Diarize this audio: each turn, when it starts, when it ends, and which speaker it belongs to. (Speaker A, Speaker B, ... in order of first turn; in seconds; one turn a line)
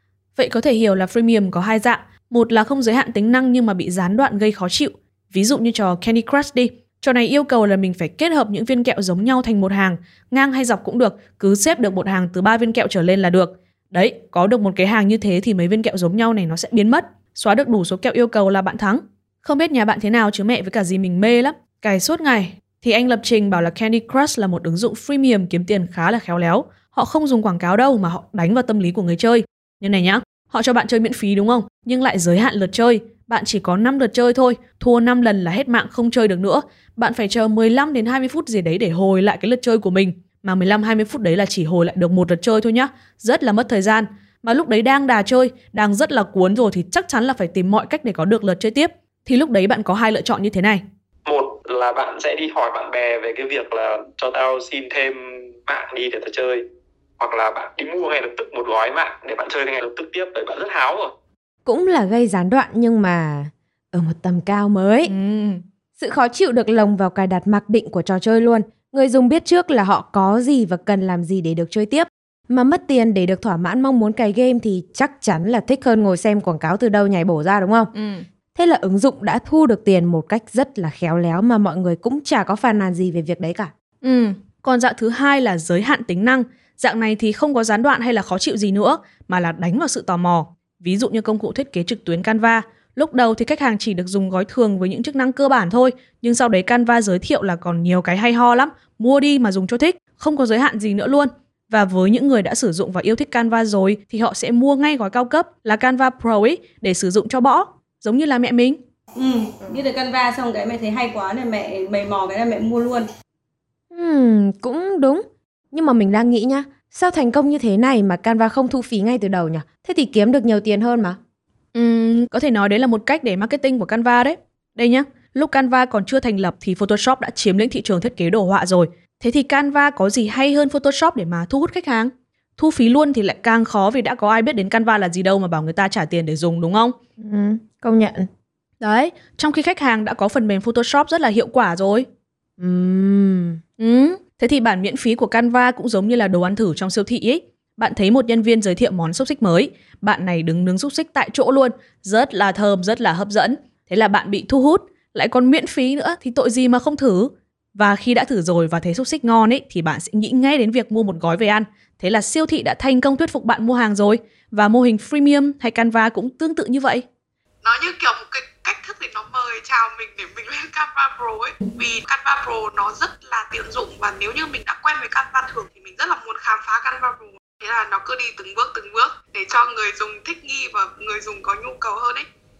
Speaker A: 0.4-50.8
Speaker B: 51.2-56.6
Speaker B: 57.2-61.1
Speaker C: 61.6-65.1
Speaker A: 65.1-65.6
Speaker C: 66.0-77.9
Speaker A: 77.9-78.2
Speaker C: 78.5-83.7
Speaker A: 84.0-108.8
Speaker D: 109.2-113.1
Speaker C: 113.9-121.2
Speaker A: 121.7-137.0
Speaker C: 137.2-138.3
Speaker A: 138.8-142.1
Speaker C: 142.6-143.6
Speaker A: 143.8-167.1
Speaker E: 167.6-182.3